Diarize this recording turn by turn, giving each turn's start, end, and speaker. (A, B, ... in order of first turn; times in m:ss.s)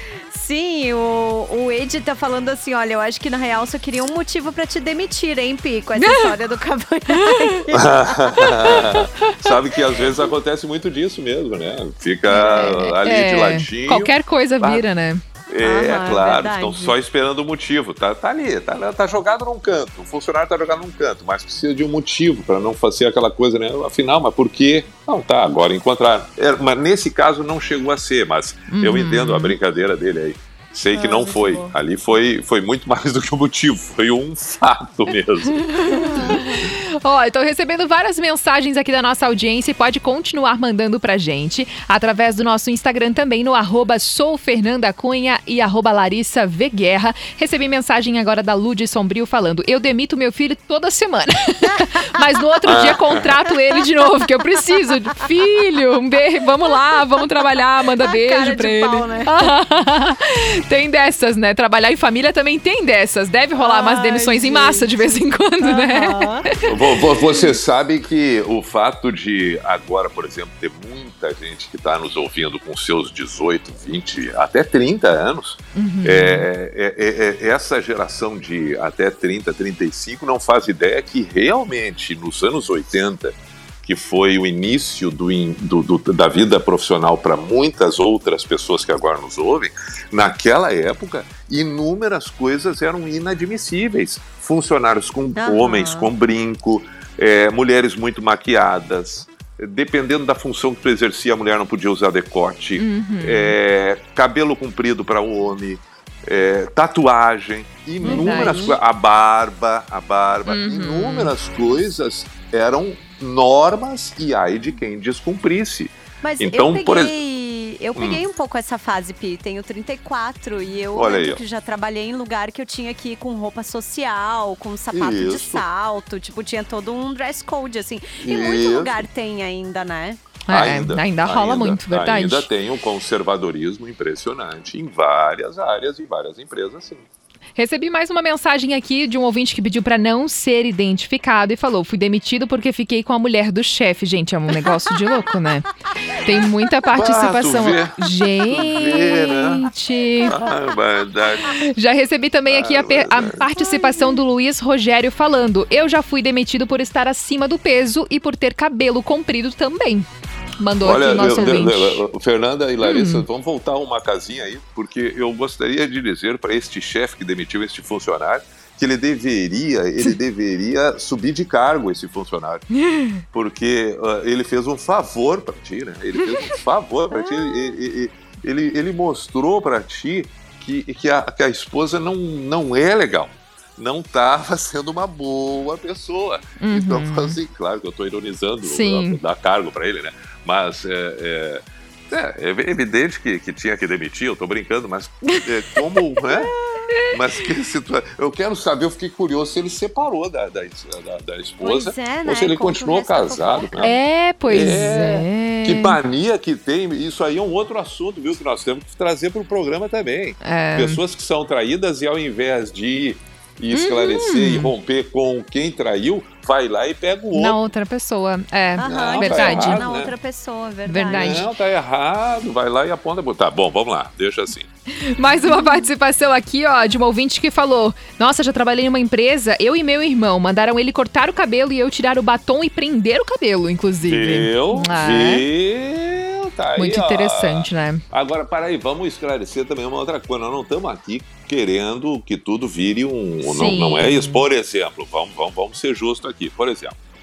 0:00.3-0:08.9 A
0:06.0-0:06.3 B
0:07.1-0:07.4 B
0:07.7-0:14.8 C
0:12.3-0:12.9 A
0:12.4-0:15.2 B
0:15.5-0:35.8 C
0:15.6-0:17.0 A
0:28.7-0:29.6 B
0:30.9-0:31.7 A
0:35.9-1:06.7 B
0:35.9-0:36.6 A
0:52.7-0:53.3 C
0:58.1-0:59.5 A
1:03.6-1:06.5 A
1:06.7-1:57.2 C
1:15.8-1:16.5 B
1:35.4-1:36.1 A
1:42.8-1:43.6 B
1:48.0-1:48.6 B
1:48.0-1:48.8 A
1:50.5-1:51.3 B
1:56.2-2:10.2 A
1:58.0-1:58.2 C
2:00.9-2:01.4 C
2:04.9-2:05.6 C
2:08.2-2:09.1 C
2:10.5-2:12.5 B
2:10.5-2:17.1 C
2:17.6-2:30.4 B
2:26.9-2:29.7 C
2:30.2-2:31.6 C
2:31.6-2:40.1 B
2:32.5-2:33.5 C
2:40.6-2:42.0 B
2:40.8-2:52.7 C
2:41.2-2:41.6 A
2:42.8-2:43.2 B
2:52.8-2:53.2 B
2:53.3-3:16.5 C
3:06.6-3:07.4 B
3:08.6-3:09.2 B
3:17.1-3:24.0 C
3:21.6-3:23.9 A
3:23.8-3:26.0 B
3:24.5-3:37.6 C
3:30.4-3:31.0 B
3:33.7-3:34.7 B
3:37.3-3:39.8 B
3:38.8-3:41.5 A
3:38.8-3:40.1 C
3:40.9-3:41.5 B
3:41.1-3:44.7 C
3:44.9-3:55.4 B
3:54.1-4:07.0 C
3:56.8-3:58.0 B
4:03.4-4:04.4 B